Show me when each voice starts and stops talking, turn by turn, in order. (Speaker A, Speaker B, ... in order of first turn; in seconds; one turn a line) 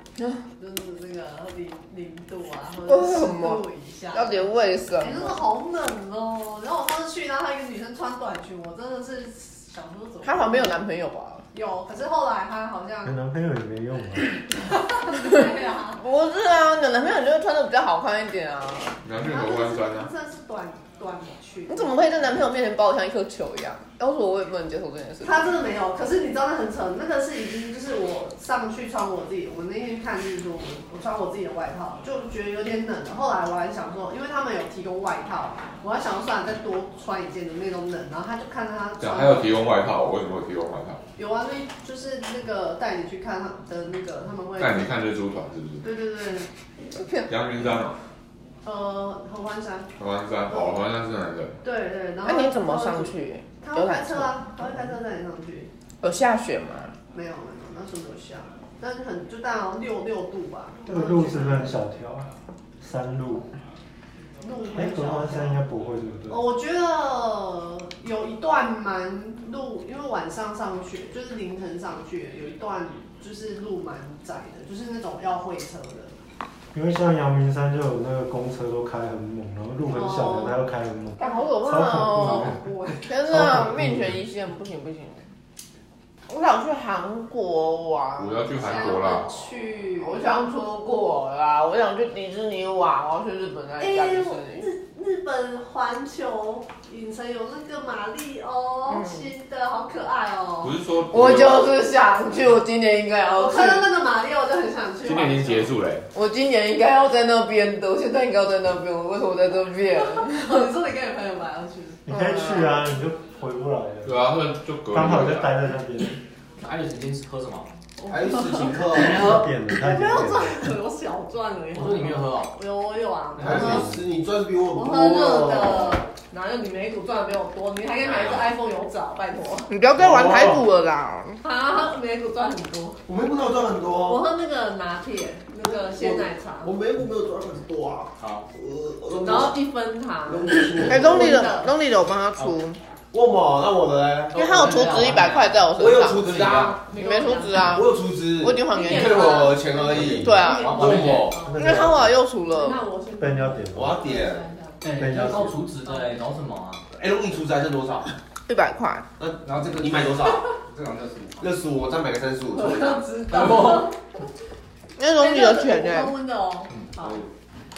Speaker A: 0.6-10.8
Speaker B: 2.9-5.5
Speaker B: 10.2-11.4
Speaker A: 11.5-13.2
Speaker C: 13.0-14.5
Speaker A: 14.7-16.0
Speaker B: 15.9-19.0
Speaker D: 19.0-20.1
Speaker A: 19.2-22.1
Speaker B: 21.7-25.5
Speaker A: 25.2-39.5
Speaker D: 39.0-41.0
Speaker A: 41.1-44.9
Speaker D: 44.6-45.8
Speaker A: 45.8-46.5
Speaker B: 46.9-47.3
Speaker D: 47.3-48.0
Speaker A: 48.6-49.9
Speaker D: 50.0-51.6
Speaker A: 51.6-55.7
Speaker B: 52.2-54.3
Speaker B: 56.0-56.9
Speaker A: 57.1-61.7
Speaker C: 60.9-63.5
Speaker A: 64.4-65.6
Speaker C: 64.7-66.5
Speaker A: 66.3-76.1
Speaker C: 76.7-84.2
Speaker A: 79.8-80.6
Speaker A: 81.2-83.1
Speaker B: 81.2-85.3
Speaker B: 86.3-89.1
Speaker D: 88.2-89.3
Speaker A: 88.6-90.4
Speaker B: 90.0-94.7
Speaker A: 93.8-100.8
Speaker B: 99.0-99.3
Speaker D: 100.6-101.7
Speaker B: 101.1-103.9
Speaker A: 103.3-105.7
Speaker D: 105.0-106.0
Speaker B: 106.1-110.7
Speaker A: 109.9-112.0
Speaker C: 112.0-114.2
Speaker B: 112.1-112.9
Speaker D: 114.0-115.5
Speaker C: 114.9-116.2
Speaker E: 116.6-117.7
Speaker A: 118.0-123.8
Speaker F: 118.1-119.2
Speaker C: 119.0-120.6
Speaker E: 121.7-122.5
Speaker E: 123.4-123.8
Speaker F: 123.4-126.0
Speaker C: 123.6-124.0
Speaker A: 124.7-129.7
Speaker B: 129.7-131.4
Speaker A: 131.4-133.0
Speaker F: 133.1-134.2
Speaker A: 134.0-136.7
Speaker F: 135.6-139.6
Speaker D: 138.2-138.5
Speaker A: 139.2-141.7
Speaker F: 140.2-141.5
Speaker B: 140.8-142.8
Speaker F: 143.1-144.4
Speaker B: 144.3-146.3
Speaker E: 144.3-146.8
Speaker F: 145.8-146.8
Speaker A: 146.8-147.8
Speaker B: 146.9-149.6
Speaker F: 147.6-151.3
Speaker A: 148.7-155.0
Speaker C: 149.9-150.5
Speaker B: 150.2-150.9
Speaker E: 150.6-151.4
Speaker C: 151.3-152.2
Speaker B: 151.5-152.8
Speaker C: 153.2-154.0
Speaker F: 153.7-154.4
Speaker E: 154.8-156.8
Speaker C: 154.9-155.7
Speaker A: 155.7-156.2
Speaker F: 156.9-158.1
Speaker B: 158.5-159.1
Speaker F: 159.2-160.5
Speaker E: 159.4-161.5
Speaker F: 161.4-163.1
Speaker A: 162.5-163.9
Speaker E: 163.3-163.8
Speaker B: 165.0-166.2
Speaker A: 165.2-167.3
Speaker D: 167.0-167.3